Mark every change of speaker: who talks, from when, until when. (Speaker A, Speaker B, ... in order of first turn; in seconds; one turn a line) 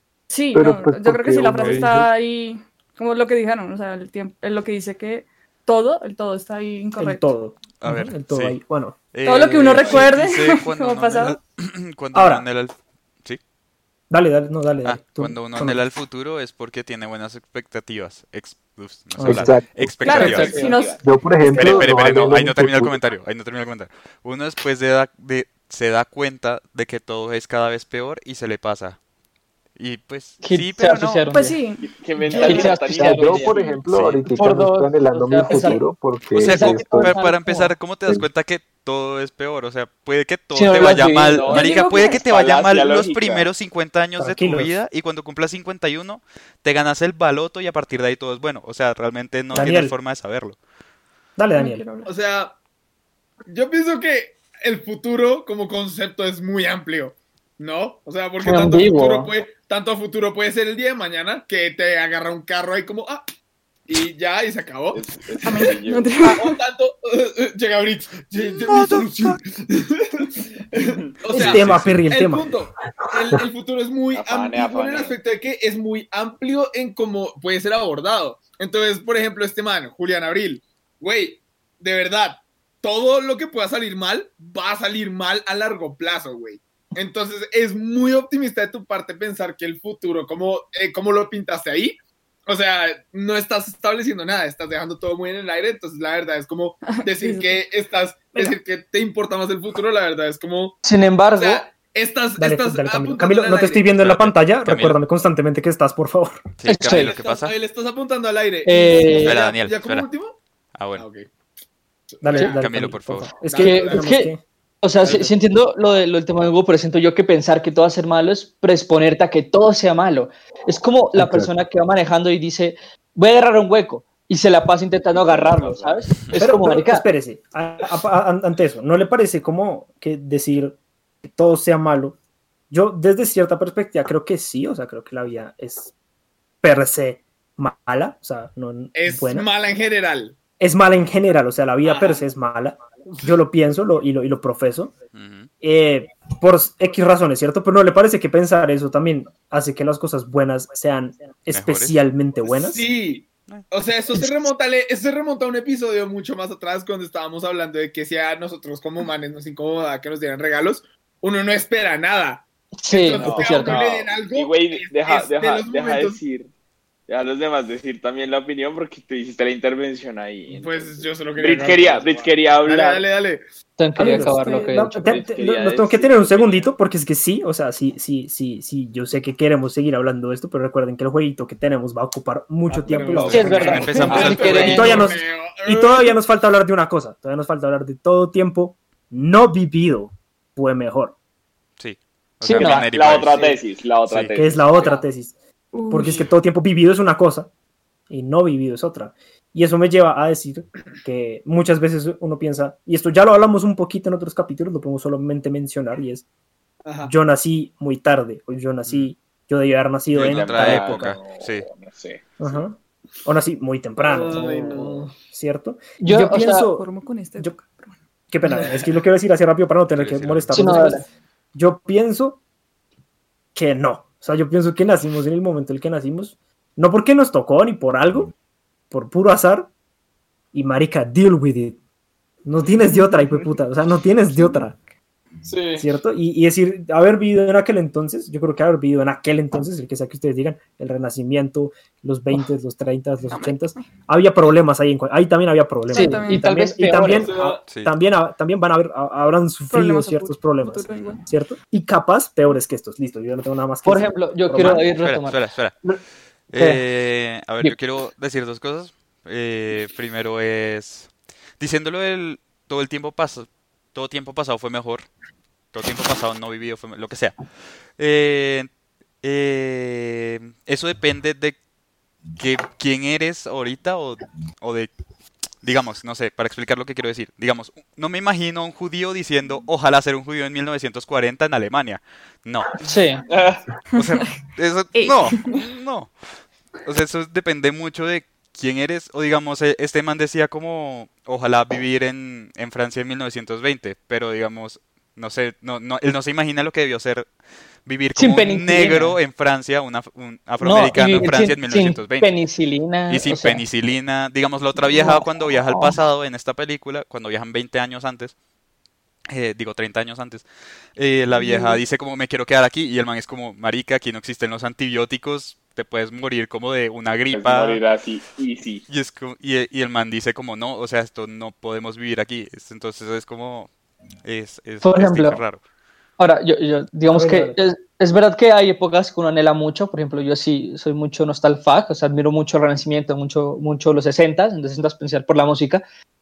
Speaker A: 0.3-7.4
Speaker B: 0.5-2.1
Speaker C: 1.6-1.9
Speaker D: 7.0-9.0
Speaker C: 7.8-13.4
Speaker A: 9.2-11.4
Speaker E: 9.7-10.1
Speaker D: 12.1-12.5
Speaker D: 14.1-15.8
Speaker C: 14.8-20.8
Speaker D: 19.1-19.7
Speaker B: 19.2-20.3
Speaker A: 20.0-21.0
Speaker F: 20.1-20.8
Speaker E: 20.1-21.0
Speaker B: 21.0-23.0
Speaker C: 21.4-29.0
Speaker E: 21.6-22.1
Speaker C: 29.8-31.4
Speaker F: 30.4-31.6
Speaker A: 31.3-32.8
Speaker E: 31.8-33.7
Speaker G: 32.3-32.8
Speaker F: 32.3-33.5
Speaker B: 32.9-37.2
Speaker A: 33.4-33.9
Speaker C: 33.9-34.3
Speaker F: 34.3-38.2
Speaker C: 36.4-50.6
Speaker F: 40.5-41.5
Speaker E: 40.8-43.5
Speaker A: 41.5-42.3
Speaker D: 44.2-44.8
Speaker D: 49.5-50.0
Speaker D: 51.4-51.9
Speaker A: 51.5-52.1
Speaker G: 52.0-52.5
Speaker G: 53.5-63.2
Speaker F: 58.4-59.3
Speaker G: 63.9-65.0
Speaker E: 64.9-66.1
Speaker A: 65.4-66.6
Speaker G: 66.2-100.8
Speaker C: 68.7-69.0
Speaker E: 70.8-71.5
Speaker D: 71.3-72.6
Speaker C: 71.4-72.0
Speaker E: 74.1-75.2
Speaker A: 96.8-97.6
Speaker F: 100.8-101.7
Speaker G: 101.3-103.9
Speaker D: 102.4-106.5
Speaker C: 104.0-105.0
Speaker C: 106.6-107.5
Speaker F: 106.7-107.2
Speaker G: 106.8-110.4
Speaker F: 108.7-109.4
Speaker C: 109.2-110.1
Speaker C: 110.7-111.0
Speaker G: 111.0-111.3
Speaker G: 112.1-112.7
Speaker D: 112.2-114.4
Speaker C: 112.3-113.3
Speaker G: 113.4-114.2
Speaker F: 113.6-127.0
Speaker G: 115.0-115.3
Speaker B: 121.2-121.5
Speaker E: 125.1-126.2
Speaker D: 126.4-132.2
Speaker D: 132.7-135.9
Speaker D: 136.6-139.5
Speaker G: 138.9-140.4
Speaker D: 140.6-144.9
Speaker G: 141.8-142.3
Speaker G: 143.1-143.4
Speaker C: 145.1-145.5
Speaker D: 145.6-152.9
Speaker C: 151.5-152.0
Speaker G: 152.4-166.2
Speaker F: 162.8-163.8
Speaker E: 163.2-166.5
Speaker E: 167.1-173.1
Speaker G: 170.5-173.4
Speaker F: 173.8-175.2
Speaker D: 174.0-191.2
Speaker A: 174.0-174.8
Speaker E: 175.1-176.7
Speaker G: 182.7-186.2
Speaker C: 183.2-185.1
Speaker F: 183.3-185.1
Speaker E: 184.1-184.6
Speaker C: 191.8-193.5
Speaker F: 192.4-192.9
Speaker E: 192.6-195.0
Speaker G: 193.2-193.6
Speaker D: 194.3-195.3
Speaker A: 195.7-196.3
Speaker D: 195.9-197.5
Speaker D: 198.1-206.2
Speaker G: 206.9-207.1
Speaker D: 207.1-211.2
Speaker C: 208.9-209.1
Speaker C: 210.1-211.7
Speaker E: 210.2-212.6
Speaker D: 212.4-216.8
Speaker G: 214.0-215.2
Speaker F: 216.0-216.7
Speaker A: 216.5-218.0
Speaker D: 218.3-222.4
Speaker G: 218.6-218.8
Speaker C: 219.9-220.9
Speaker F: 220.5-221.1
Speaker D: 223.6-228.3
Speaker D: 228.9-229.7
Speaker D: 230.5-231.8
Speaker D: 232.4-234.8
Speaker G: 232.6-233.5
Speaker A: 234.4-234.7
Speaker G: 235.4-235.9
Speaker D: 235.8-254.9
Speaker A: 243.3-243.9
Speaker A: 245.9-246.5
Speaker F: 245.9-247.4
Speaker G: 247.1-247.6
Speaker C: 247.6-247.9
Speaker A: 249.7-251.2
Speaker F: 253.8-256.0
Speaker C: 254.6-255.8
Speaker C: 256.4-265.1
Speaker F: 256.5-256.9
Speaker C: 265.7-268.7
Speaker C: 269.2-271.6
Speaker C: 272.4-274.9
Speaker C: 275.5-282.7
Speaker F: 282.9-283.2
Speaker E: 283.3-283.6
Speaker A: 283.9-285.6
Speaker C: 283.9-302.3
Speaker F: 298.1-299.1
Speaker F: 300.6-303.6
Speaker C: 303.1-308.3
Speaker F: 304.9-306.0
Speaker C: 309.3-317.8
Speaker A: 311.4-311.8
Speaker E: 317.3-318.8
Speaker C: 318.9-323.7
Speaker C: 324.2-325.6
Speaker F: 324.8-325.4
Speaker F: 326.2-335.8
Speaker D: 327.1-327.6